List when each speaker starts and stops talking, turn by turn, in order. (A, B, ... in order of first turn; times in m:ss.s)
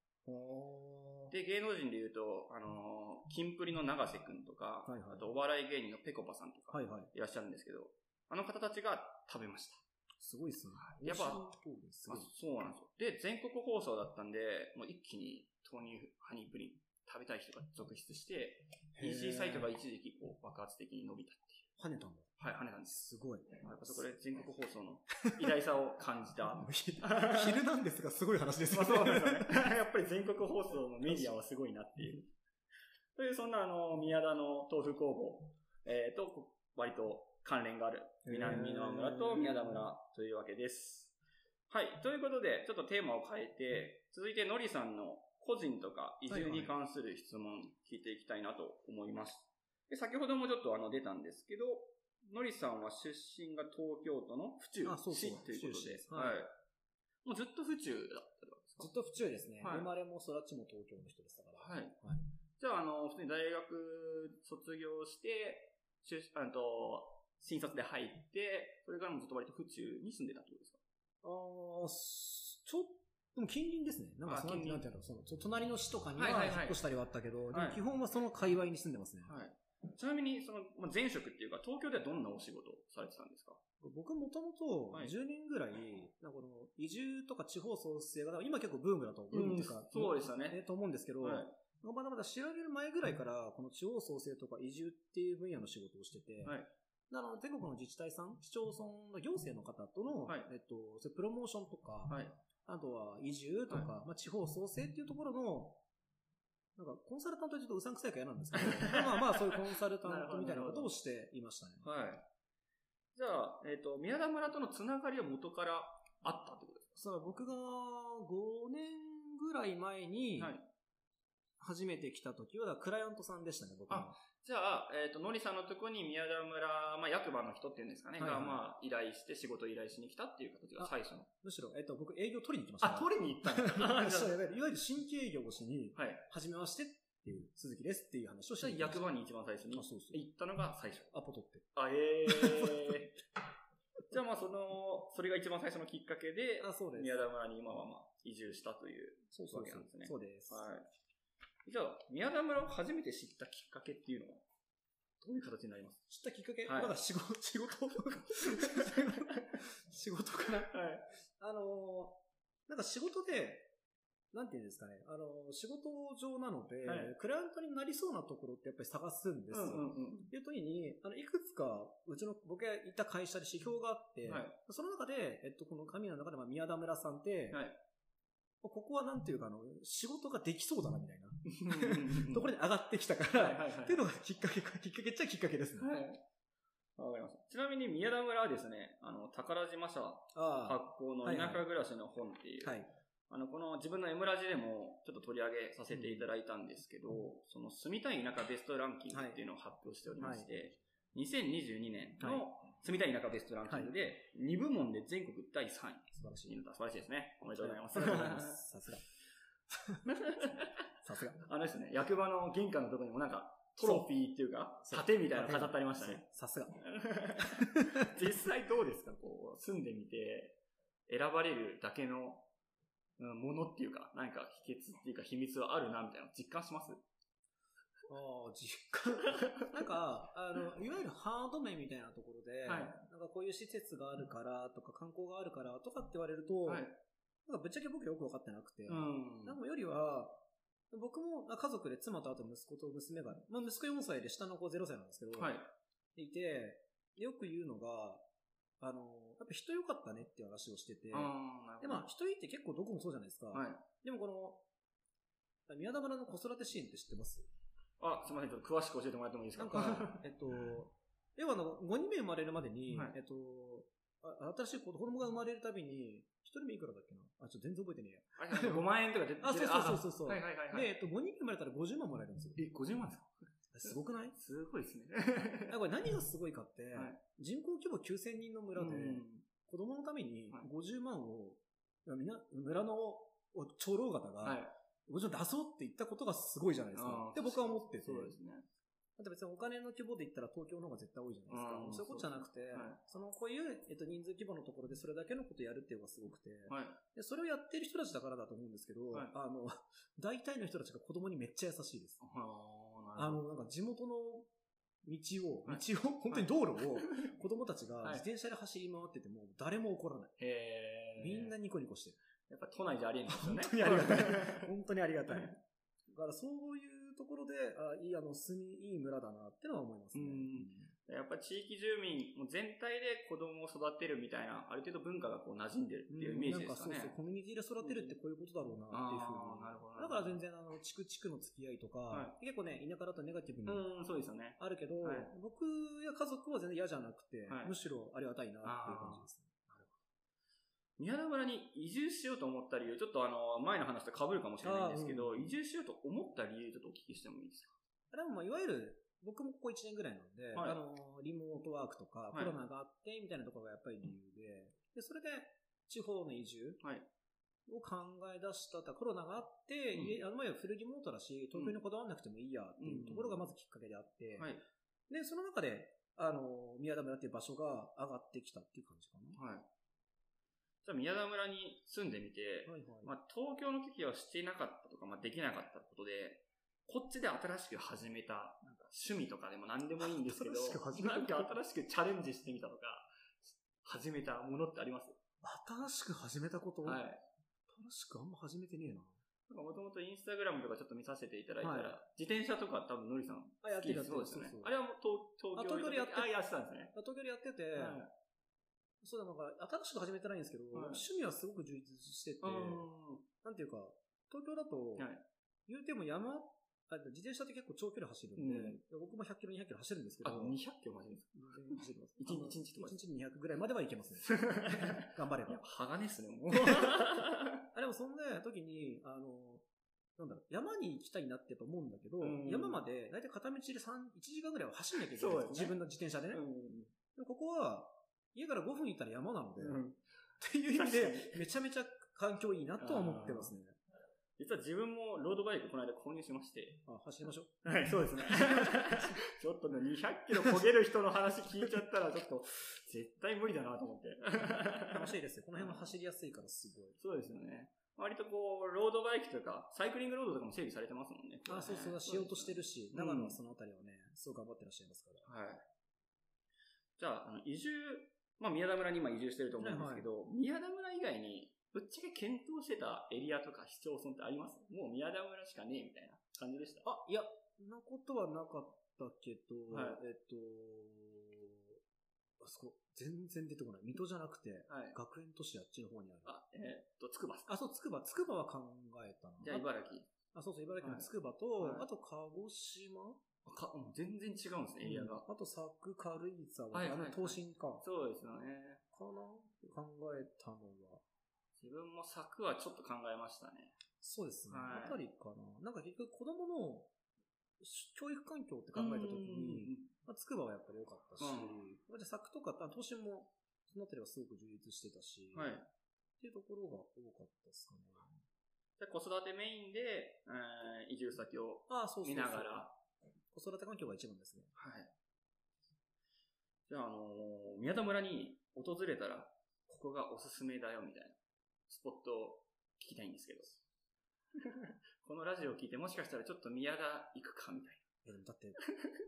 0:00.2-0:01.3 A
0:01.3-0:09.8 B
0:04.8-0:05.3 A
0:06.7-0:07.1 A
0:10.2-0:12.3 A
0:10.8-0:11.4 B
0:12.1-0:21.7 B
0:19.0-0:19.7 A
0:21.8-0:22.4 A
0:22.4-0:23.1 B
0:22.9-0:24.2 A
0:23.6-0:27.6 B
0:25.2-0:25.5 A
0:26.4-0:29.7 A
0:28.7-0:32.3 B
0:33.2-0:41.2 B
0:38.2-0:39.9 A
0:41.7-0:56.5 B
0:46.3-0:46.7 A
0:54.8-0:56.4 A
0:57.2-0:58.9 B
0:58.8-1:02.2 A
0:59.6-0:59.9 B
1:01.6-1:02.0 B
1:02.6-1:10.8 B
1:11.2-1:19.3 A
1:14.3-1:14.8 B
1:16.2-1:16.8 B
1:17.5-1:17.8 B
1:19.2-1:23.6 B
1:23.8-1:36.6 A
1:29.3-1:30.6 B
1:31.2-1:31.6 B
1:36.4-1:36.7 B
1:37.1-1:45.8 A
1:40.2-1:40.5 B
1:42.1-1:42.4 B
1:46.8-1:51.8 A
1:48.5-1:50.9 B
1:51.8-1:52.2 B
1:53.1-1:56.9 B
1:57.0-2:00.6 A
2:00.4-2:00.7 B
2:01.6-2:04.2 A
2:03.9-2:11.3 B
2:08.2-2:08.6 A
2:10.8-2:19.1 A
2:12.8-2:14.4 B
2:15.9-2:16.2 B
2:18.6-2:21.1 B
2:19.7-2:20.2 A
2:21.1-2:21.6 A
2:21.7-2:23.2 B
2:22.3-2:23.0 A
2:24.1-2:30.8 B
2:26.6-2:27.2 A
2:29.3-2:30.7 A
2:31.6-2:34.4 B
2:35.2-2:36.0 B
2:36.1-2:40.8 A
2:36.6-2:36.9 B
2:38.4-2:39.6 B
2:40.7-2:41.1 B
2:41.4-2:43.7 A
2:44.3-2:57.6 A
2:46.8-2:47.1 B
2:49.5-2:50.3 B
2:54.3-2:54.6 B
2:57.5-2:57.8 B
2:58.6-3:05.9 A
3:01.5-3:02.5 B
3:03.3-3:04.0 B
3:05.8-3:06.2 B
3:07.0-3:28.6 B
3:10.3-3:11.6 A
3:12.6-3:12.9 A
3:15.9-3:16.3 A
3:19.1-3:19.4 A
3:20.2-3:20.5 A
3:22.2-3:22.4 A
3:23.7-3:23.9 A
3:26.1-3:26.6 A
3:27.5-3:29.0 A
3:29.7-3:31.4 A
3:30.0-3:30.7 B
3:31.4-3:36.2 B
3:33.8-3:34.1 A
3:34.8-3:36.8 A
3:36.8-3:42.5 B
3:37.4-3:38.1 A
3:43.2-3:47.0 B
3:48.1-3:56.9 A
3:49.4-3:49.7 B
3:52.6-3:53.0 B
3:56.6-3:57.0 B
3:57.4-4:05.6 A
3:58.9-3:59.6 B
4:05.4-4:05.7 B
4:06.1-4:08.2 A
4:08.8-4:14.6 A
4:11.1-4:12.1 B
4:13.5-4:13.8 B
4:15.7-4:17.5 A
4:18.0-4:20.2 B
4:19.6-4:28.9 A
4:28.4-4:30.9 B
4:29.4-4:32.6 A
4:32.6-4:35.8 B
4:33.7-4:34.4 A
4:35.7-4:48.4 A
4:36.9-4:37.2 B
4:38.8-4:39.4 B
4:44.4-4:44.7 B
4:46.9-4:48.7 B
4:49.2-5:02.2 A
4:51.5-4:53.0 B
4:56.7-4:57.0 B
5:02.2-5:03.4 B
5:03.2-5:04.5 A
5:05.0-5:10.3 A
5:05.6-5:07.3 B
5:10.4-5:11.5 B
5:11.2-5:12.2 A
5:12.5-5:14.7 B
5:13.3-5:15.5 A
5:16.1-5:20.9 A
5:20.1-5:27.1 B
5:26.1-5:33.9 A
5:27.8-5:28.2 B
5:28.9-5:30.4 B
5:33.6-5:35.3 B
5:34.6-5:39.9 A
5:37.5-5:37.7 B
5:38.6-5:39.3 B
5:41.0-5:47.8 B
5:44.6-5:45.5 A
5:48.1-5:56.8 A
5:56.8-5:57.1 B
5:57.7-6:04.5 A
6:02.8-6:03.4 B
6:04.4-6:04.6 B
6:05.1-6:09.4 A
6:09.3-6:09.7 B
6:10.8-6:25.2 B
6:12.6-6:13.1 A
6:20.0-6:21.6 A
6:25.4-6:27.0 A
6:26.8-6:27.2 B
6:27.7-6:29.2 A
6:29.5-6:36.9 B
6:31.6-6:31.9 A
6:33.6-6:34.7 A
6:35.5-6:36.3 A
6:36.9-6:38.0 A
6:37.7-6:38.1 B
6:39.0-6:42.8 A
6:40.7-6:41.0 B
6:42.4-6:43.2 B
6:43.4-6:45.1 A
6:45.0-6:45.2 B
6:45.7-6:50.6 A
6:48.4-6:48.8 B
6:50.2-6:53.0 B
6:51.3-6:55.6 A
6:54.2-6:57.6 B
6:56.5-6:57.1 A
6:57.7-6:59.6 A
7:00.2-7:06.4 A
7:02.2-7:02.8 B
7:05.1-7:05.8 B
7:06.3-7:06.9 B
7:07.1-7:09.8 A
7:09.6-7:10.0 B
7:10.4-7:13.8 A
7:10.7-7:11.4 B
7:12.8-7:13.5 B
7:14.4-7:16.8 B
7:16.8-7:19.2 A
7:17.6-7:25.8 B
7:24.9-7:27.0 A
7:27.0-7:33.4 B
7:31.5-7:35.3 A
7:35.2-7:35.6 B
7:37.0-7:46.8 B
7:39.6-7:40.1 A
7:46.8-7:51.8 A
7:49.7-7:50.0 B
7:52.4-7:56.3 A
7:54.7-7:55.0 B
7:56.2-7:57.5 B
7:57.5-7:59.7 A
7:59.4-8:00.1 B
8:00.3-8:03.2 A
8:00.8-8:01.1 B
8:01.6-8:01.9 B
8:03.4-8:05.2 B
8:04.8-8:07.8 A
8:06.7-8:08.8 B
8:08.9-8:11.0 A
8:11.6-8:13.8 B
8:14.0-8:16.9 A
8:14.5-8:15.0 B
8:17.6-8:25.5 A
8:18.7-8:19.9 B
8:21.2-8:21.6 B
8:25.3-8:25.7 B
8:26.2-8:28.2 A
8:28.8-8:32.7 B
8:31.7-8:32.7 A
8:33.3-8:34.5 A
8:34.6-8:34.9 B
8:36.7-8:43.6 B
8:44.4-8:47.8 B
8:48.0-8:48.6 A